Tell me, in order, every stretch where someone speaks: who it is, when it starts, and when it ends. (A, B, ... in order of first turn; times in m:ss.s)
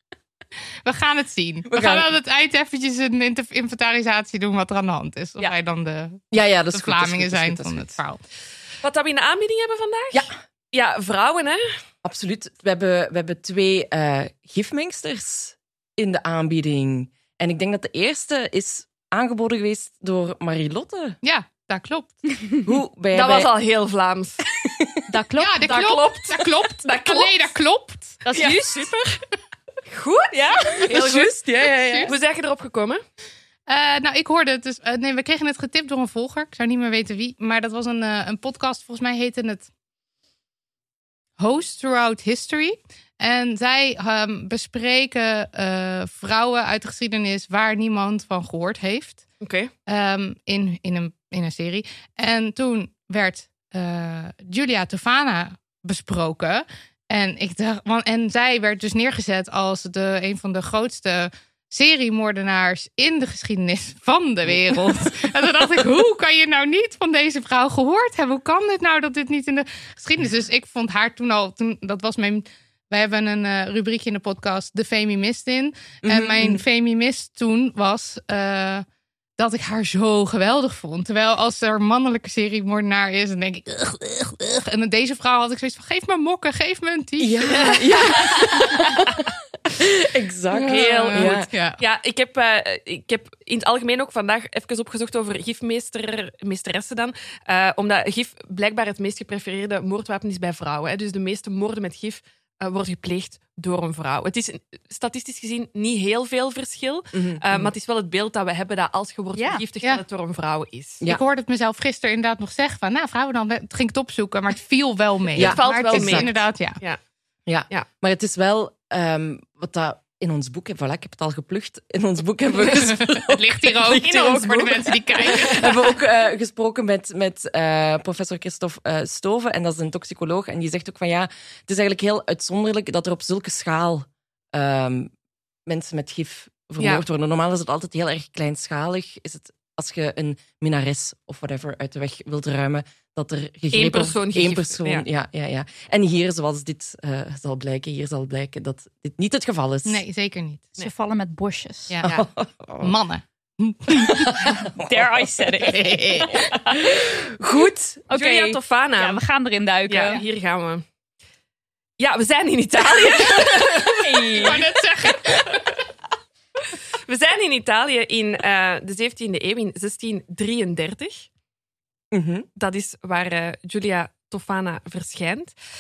0:00.8-0:08.2 A
0:01.7-0:02.1 B
0:06.3-0:08.0 B
0:08.8-0:11.6 C
0:12.0-0:21.2 B
0:21.2-0:22.2 A
0:22.6-0:23.5 B
0:23.1-0:24.4 C
0:24.6-0:25.1 B
0:25.1-0:25.6 D
0:25.4-0:28.2 A
0:25.6-0:27.5 C
0:28.2-0:28.9 D
0:28.3-0:29.0 C
0:29.9-0:31.3 C
0:30.3-0:30.9 D
0:30.8-0:32.2 B
0:31.7-0:32.1 A
0:32.0-0:33.0 C
0:33.7-0:39.7 A
0:41.4-0:49.2 A
0:49.4-0:49.7 C
0:49.9-1:18.8 A
1:16.0-1:16.6 B
1:19.4-1:27.8 A
1:27.2-1:31.5 B
1:27.5-1:28.4 C
1:30.5-1:51.0 C
1:30.6-1:31.8 A
1:47.1-1:47.7 B
1:49.3-1:49.6 D
1:51.0-1:56.8 A
1:55.3-1:57.0 C
1:55.4-1:56.3 B
1:57.5-2:15.1 B
2:02.6-2:05.9 A
2:04.0-2:04.6 C
2:15.6-2:30.0 B
2:16.8-2:17.0 C
2:23.7-2:25.0 C
2:29.8-2:30.8 A
2:30.8-2:32.0 D
2:32.0-2:32.9 B
2:32.8-2:34.5 A
2:34.2-2:35.3 B
2:34.7-2:36.8 D
2:35.6-2:36.5 A
2:36.7-2:38.0 B
2:38.1-2:39.2 C
2:38.1-2:40.2 D
2:39.9-2:40.8 C
2:42.0-2:44.6 C
2:44.0-2:44.6 D
2:44.4-2:45.7 A
2:47.0-2:51.3 C
2:52.1-2:52.4 B
2:52.6-2:55.5 C